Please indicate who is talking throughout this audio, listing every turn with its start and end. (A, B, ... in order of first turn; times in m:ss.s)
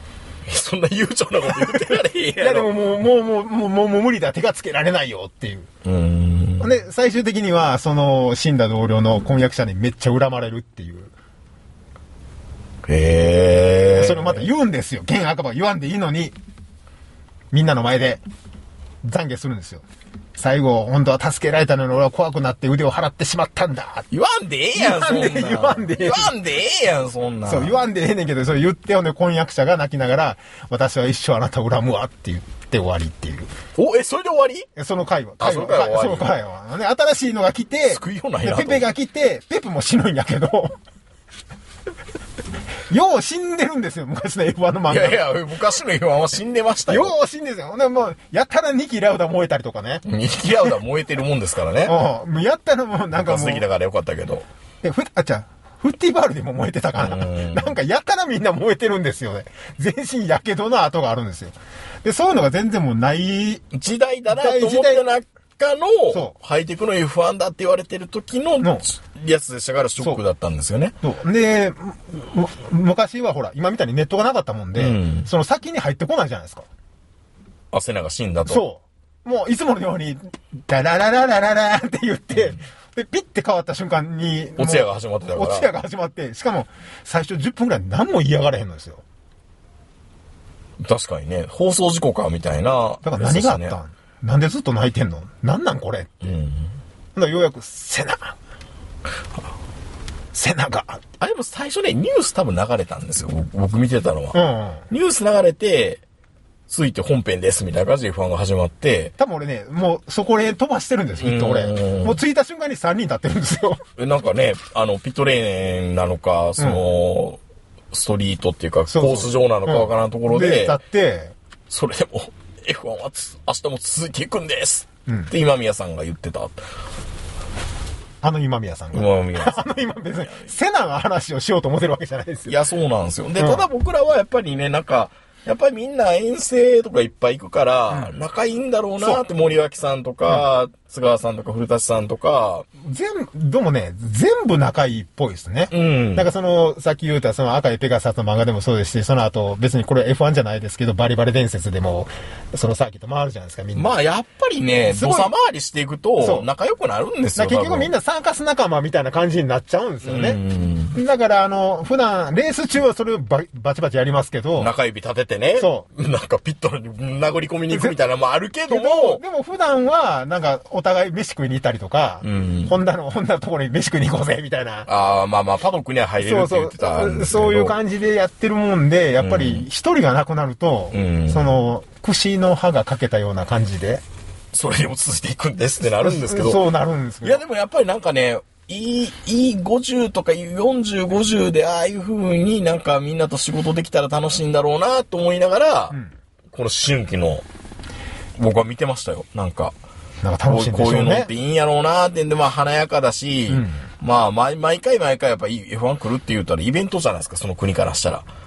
0:00.5-0:02.7 A
0:01.5-0:05.7 B
0:05.8-0:06.7 A
0:06.6-0:11.1 B
0:12.8-0:14.5 A
0:14.0-0:16.3 B
0:17.5-0:18.2 B
0:19.0-0:19.8 B
0:20.4-0:24.1 B
0:24.1-0:27.8 A
0:24.7-0:26.3 B
0:27.4-0:33.5 B
0:33.8-0:34.7 A
0:34.8-0:40.8 B
0:35.4-0:36.3 A
0:37.9-0:38.8 A
0:42.9-0:45.2 B
0:44.9-0:47.1 A
0:46.9-0:50.0 B
0:50.0-0:52.0 A
0:51.8-0:53.6 B
0:53.1-0:54.4 A
0:54.8-1:03.6 B
0:57.0-0:57.7 A
1:03.7-1:11.0 A
1:04.3-1:05.0 B
1:11.0-1:16.7 B
1:14.8-1:15.3 A
1:17.7-1:18.6 A
1:18.4-1:29.0 B
1:24.6-1:25.7 A
1:30.8-1:33.8 A
1:33.0-1:36.1 B
1:36.2-1:36.7 A
1:37.1-1:38.4 B
1:40.3-1:41.0 B
1:41.2-1:46.0 A
1:44.3-1:44.8 B
1:46.7-1:49.1 A
1:49.2-1:53.8 B
1:51.2-1:52.2 A
1:54.0-1:57.4 A
1:56.6-1:56.8 B
1:57.9-2:00.8 A
1:58.9-2:01.3 B
2:01.7-2:06.6 A
2:08.2-2:12.6 B
2:08.9-2:10.5 A
2:12.5-2:22.7 A
2:13.4-2:13.6 B
2:19.0-2:19.2 B
2:22.8-2:33.9 B
2:25.7-2:26.3 A
2:33.7-2:37.9 A
2:34.8-2:35.3 B
2:36.2-2:36.5 B
2:37.4-2:40.4 B
2:40.0-2:41.0 A
2:40.9-2:44.7 B
2:44.6-2:49.2 A
2:45.6-2:45.8 B
2:47.7-2:48.0 B
2:48.7-2:54.9 B
2:52.2-2:52.8 A
2:54.9-2:57.8 A
2:56.2-3:04.0 B
2:59.2-2:59.7 A
3:00.9-3:01.6 A
3:04.5-3:06.7 A
3:06.0-3:07.4 B
3:07.2-3:16.0 A
3:16.5-3:17.4 A
3:18.4-3:19.7 A
3:20.2-3:21.3 B
3:20.5-3:28.2 A
3:23.5-3:23.8 B